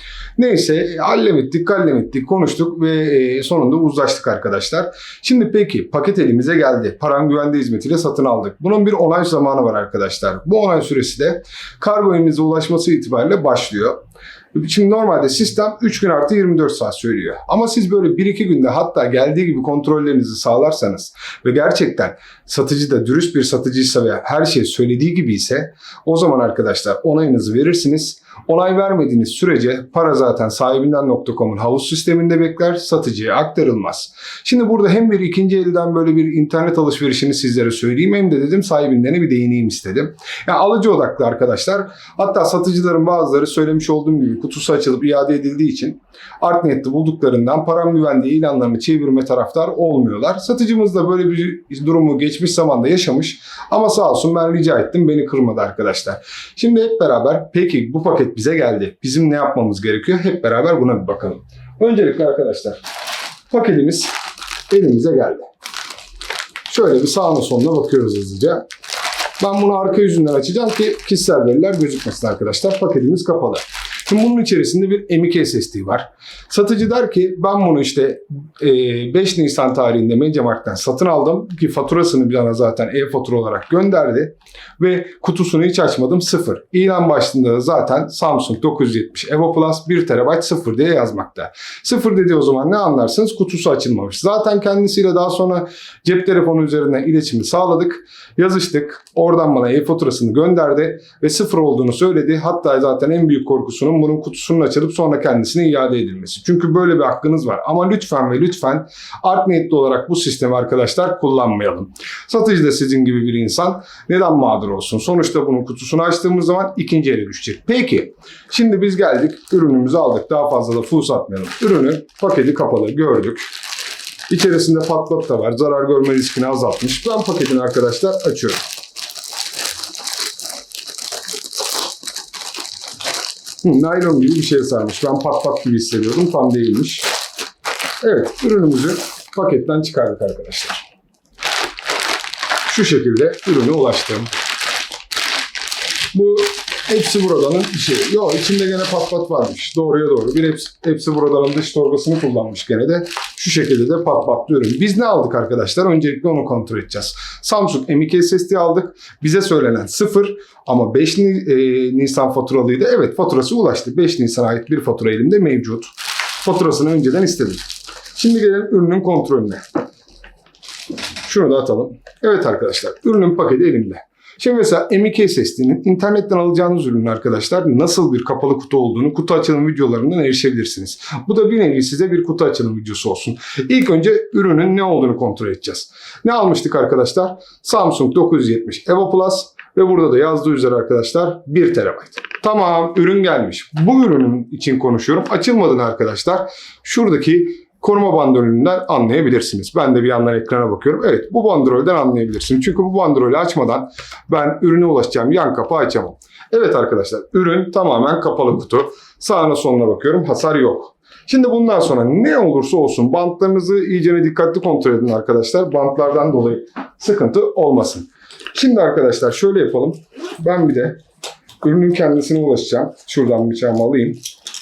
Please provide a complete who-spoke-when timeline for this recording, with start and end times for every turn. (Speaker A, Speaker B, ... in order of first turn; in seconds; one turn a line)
Speaker A: 0.4-14.0
Speaker A: 14.5-62.8
Speaker A: 63.5-64.1
Speaker A: 64.7-65.5
Speaker A: 66.7-68.7
Speaker A: 69.4-123.5
Speaker A: 124.3-128.6
Speaker A: 133.6-137.1
Speaker A: 138.0-140.8
Speaker A: 142.7-144.3
Speaker A: 146.1-167.6
Speaker A: 168.2-169.6
Speaker A: 171.2-221.0
Speaker A: 221.6-224.2